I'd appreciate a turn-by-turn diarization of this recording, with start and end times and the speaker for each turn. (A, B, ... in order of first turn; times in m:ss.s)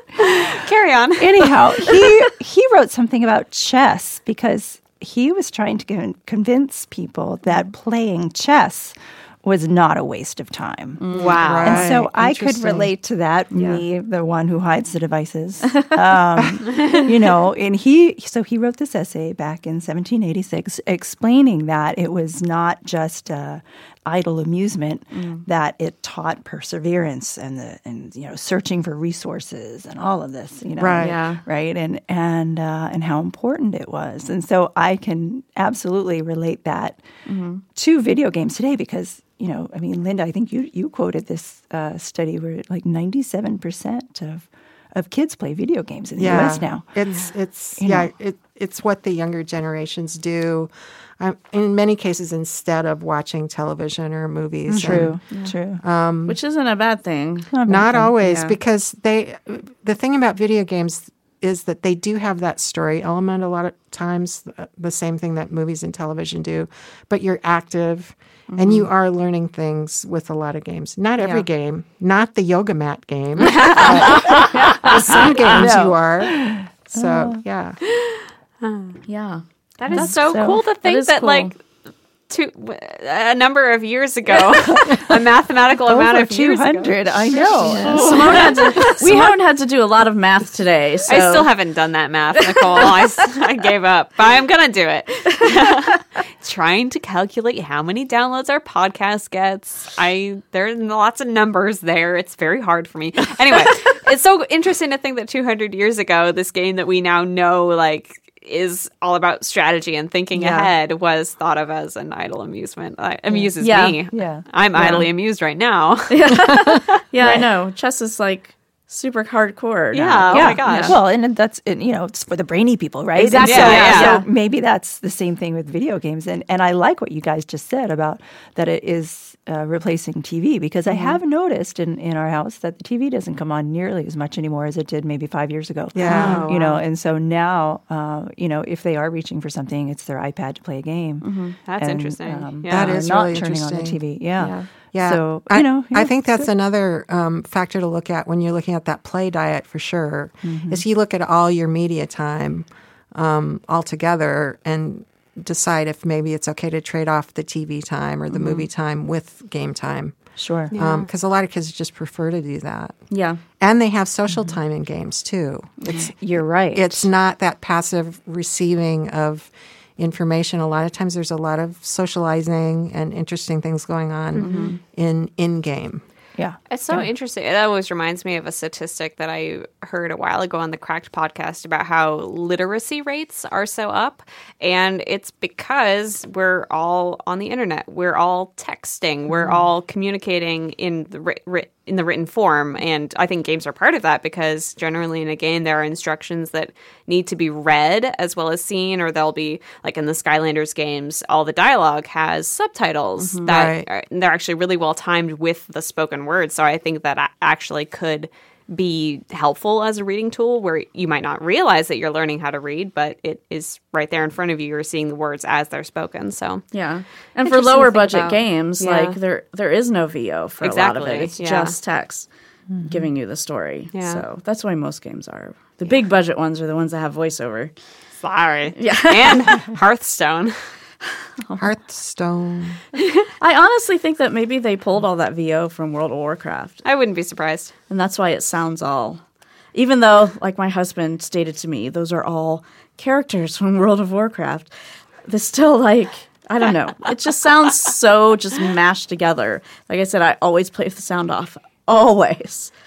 0:00.2-0:02.1 A
0:01.2-0:11.0 B
0:11.0-0:11.6 C
0:11.1-0:11.9 A
0:11.1-0:12.9 D
0:11.6-0:37.0 B
0:13.5-0:13.8 C
0:25.1-0:25.4 C
0:30.8-0:31.2 D
0:31.0-0:31.4 C
0:37.3-0:37.6 C
0:37.7-0:46.9 B
0:46.1-0:56.4 D
0:47.8-0:48.1 B
0:54.7-0:55.8 B
0:54.9-0:55.6 C
0:56.3-0:57.5 C
0:57.5-0:58.1 B
0:57.7-1:17.8 D
0:58.2-0:58.6 C
1:08.5-1:08.9 C
1:11.2-1:11.4 C
1:13.4-1:14.6 A
1:15.2-1:17.4 B
1:15.2-1:15.5 A
1:18.0-1:19.0 A
1:19.1-1:20.2 C
1:19.8-1:21.6 A
1:19.9-1:20.6 B
1:20.8-1:21.5 C
1:22.3-1:29.3 A
1:24.6-1:25.0 B
1:25.9-1:29.3 B
1:27.3-1:31.5 C
1:31.1-1:56.2 A
1:50.4-1:50.7 C
1:53.6-1:54.0 C
1:54.1-1:55.0 B
1:54.8-1:55.0 C
1:56.1-2:01.0 C
1:59.9-2:01.0 A
2:00.3-2:26.5 B
2:03.2-2:04.2 C
2:03.4-2:04.2 A
2:10.9-2:11.2 C
2:15.9-2:16.4 D
2:16.0-2:16.8 A
2:21.2-2:21.6 C
2:21.6-2:23.0 A
2:22.7-2:24.0 D
2:24.4-2:24.7 C
2:24.9-2:56.0 D
2:30.4-2:30.8 B
2:40.4-2:40.7 B
2:40.7-2:41.1 A
2:43.1-2:43.4 C
2:45.8-2:46.1 C
2:45.9-2:47.1 B
2:54.4-2:54.8 C
2:56.4-2:57.1 B
2:56.7-3:36.7 A
3:23.2-3:23.4 C
3:23.4-3:23.9 D
3:36.7-3:42.3 C
3:37.4-3:39.2 A
3:40.6-3:41.8 A
3:42.7-3:43.0 B
3:42.8-3:47.7 C
3:43.9-3:44.2 A
3:48.2-3:50.6 A
3:48.8-3:49.6 C
3:51.6-3:52.8 D
3:53.4-3:56.8 C
3:56.8-3:57.7 A
3:57.9-3:59.2 C
3:59.7-4:04.7 C
4:05.2-4:12.7 C